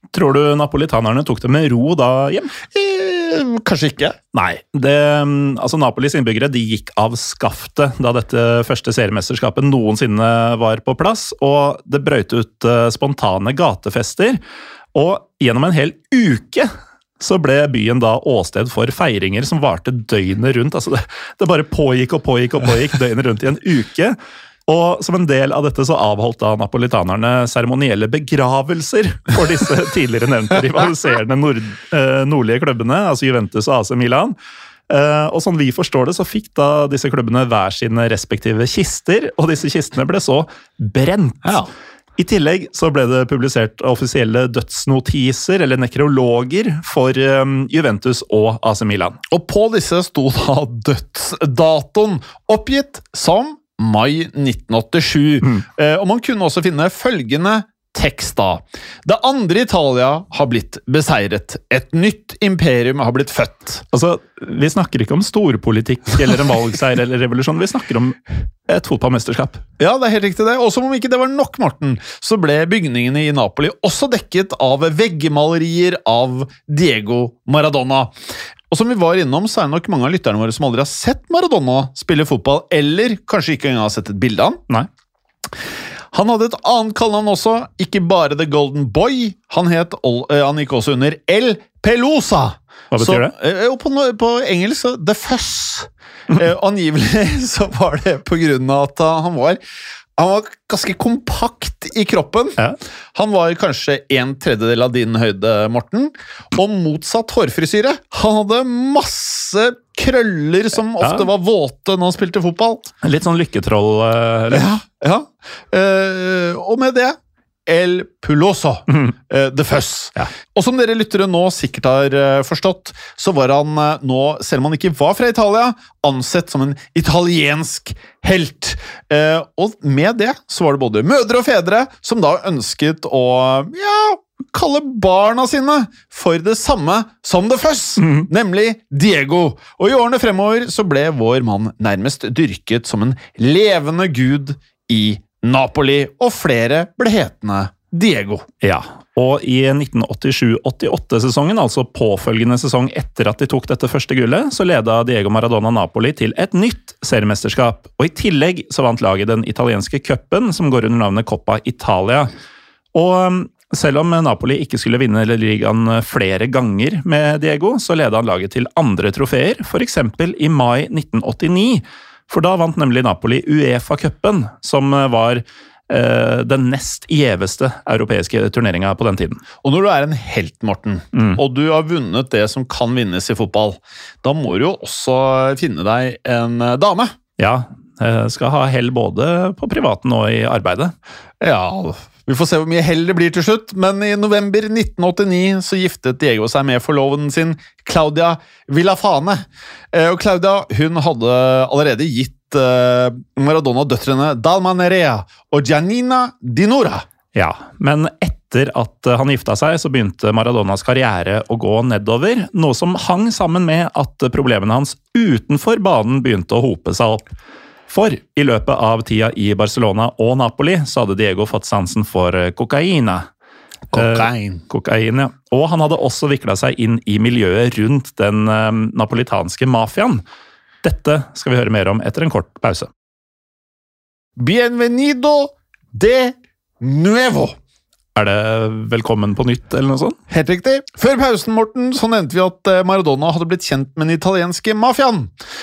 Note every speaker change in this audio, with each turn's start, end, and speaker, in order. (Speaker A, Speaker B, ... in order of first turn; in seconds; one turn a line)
Speaker A: 0.1-2.6
Speaker B: 2.7-4.2
Speaker A: 4.3-14.4
Speaker A: 14.9-24.2
Speaker A: 24.7-34.4
Speaker A: 34.9-49.2
Speaker B: 49.3-63.8
Speaker A: 63.9-69.6
Speaker B: 69.8-78.2
Speaker B: 78.7-84.6
Speaker B: 86.1-99.6
Speaker A: 92.9-93.3
Speaker B: 100.2-102.6
Speaker B: 103.2-112.9
Speaker A: 111.0-111.3
Speaker A: 113.0-114.7
Speaker B: 114.5-148.5
Speaker A: 138.0-138.3
Speaker A: 148.6-162.3
Speaker A: 162.9-179.4
Speaker B: 179.6-187.2
Speaker A: 181.1-181.4
Speaker A: 187.4-190.9
Speaker B: 191.4-207.1
Speaker A: 207.3-217.3
Speaker A: 217.9-223.3
Speaker B: 223.9-224.6
Speaker A: 223.9-230.2
Speaker A: 230.8-232.9
Speaker B: 234.4-237.6
Speaker A: 238.2-240.2
Speaker B: 240.3-245.3